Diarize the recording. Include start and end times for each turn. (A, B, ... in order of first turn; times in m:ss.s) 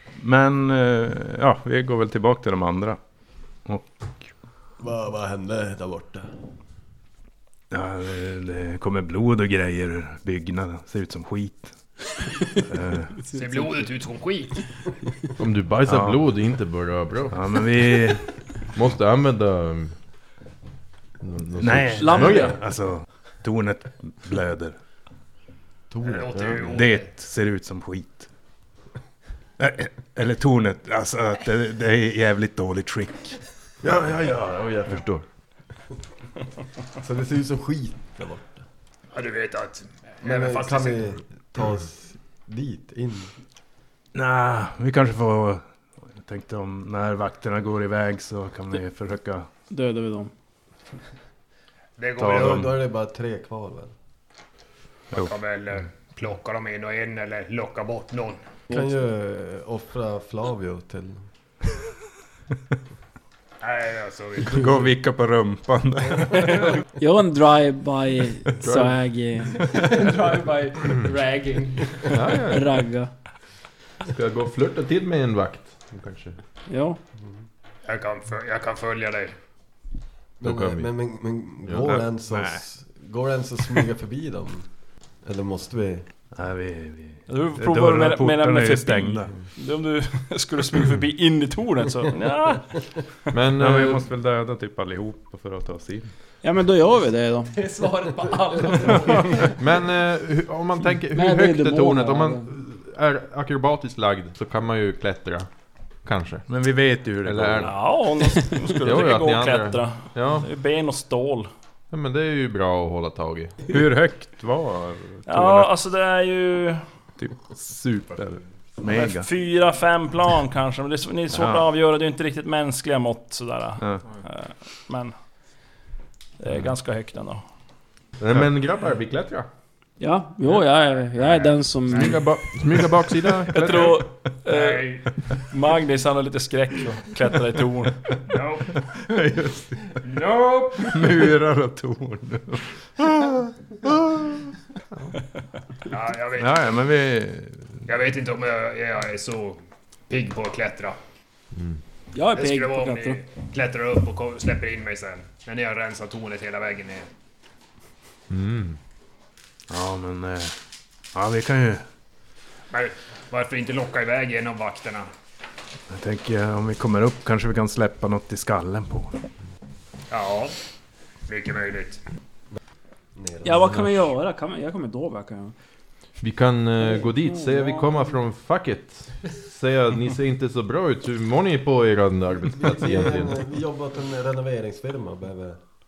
0:00.2-0:03.0 A
0:04.8-0:06.3 B
0:07.7-0:11.8 A
0:12.6-0:13.2 A
0:13.3-0:13.8 C
0:13.3-0:14.6 D
0:15.4-0:17.4 E
0:15.8-0:16.2 A
0:17.3-0:18.3 A
0:18.7-0:19.9 E
0:21.2-0:22.6 E
0:21.6-0:24.8 A
0:22.0-0:22.6 C
0:25.9-0:26.8 B
0:26.0-0:27.0 D
0:26.3-0:26.6 E
0:26.6-0:28.3 A
0:29.6-0:33.4 A
0:33.8-0:35.2 E
0:33.9-0:35.0 B
0:37.0-0:38.6 B
0:39.1-0:41.1 D
0:40.2-0:43.3 B
0:44.1-0:45.6 A
0:46.1-0:49.5 A
0:49.7-0:50.3 C
0:52.0-0:52.7 D
0:52.2-0:52.7 A
0:52.2-0:53.9 B
0:55.1-0:58.4 D
0:58.7-1:01.2 B
1:03.6-1:04.6 D
1:04.4-1:06.7 A
1:06.5-1:09.6 C
1:08.6-1:09.0 E
1:09.6-1:12.4 F
1:12.1-1:12.7 E
1:12.5-1:13.1 C
1:14.1-1:16.4 E
1:16.7-1:17.0 C
1:17.8-1:19.3 D
1:20.4-1:24.7 B
1:20.4-1:20.9 E
1:21.7-1:22.0 E
1:21.9-1:22.6 A
1:25.2-1:26.0 B
1:26.3-1:29.3 A
1:27.3-1:32.8 G
1:33.3-1:34.0 E
1:33.6-1:36.1 A
1:36.4-1:37.5 C
1:37.5-1:39.6 F
1:39.6-1:45.5 E
1:41.1-1:42.5 C
1:46.0-1:46.4 E
1:46.5-1:47.7 A
1:47.2-1:47.8 E
1:47.6-1:51.5 G
1:48.8-1:50.5 E
1:51.9-1:53.6 E
1:53.7-1:55.7 A
1:55.3-1:56.8 G
1:57.2-1:59.3 A
1:58.9-2:05.1 G
2:01.3-2:01.7 A
2:06.4-2:07.4 G
2:08.2-2:09.5 E
2:10.0-2:12.3 C
2:11.2-2:12.2 D
2:11.9-2:14.0 E
2:13.5-2:18.1 G
2:14.5-2:15.1 D
2:18.3-2:18.8 D
2:18.8-2:20.0 A
2:20.2-2:21.2 F
2:20.8-2:24.5 A
2:25.9-2:26.7 D
2:26.3-2:27.7 A
2:27.9-2:31.0 D
2:32.1-2:33.2 C
2:32.3-2:37.1 D
2:38.3-2:38.8 E
2:39.7-2:40.5 A
2:41.1-2:41.8 A
2:42.7-2:45.1 D
2:45.9-2:49.2 A
2:50.1-2:50.5 D
2:51.3-2:52.0 D
2:53.1-2:53.8 B
2:53.4-2:55.5 C
2:56.2-3:03.4 E
2:56.8-2:58.1 C
3:02.6-3:05.6 B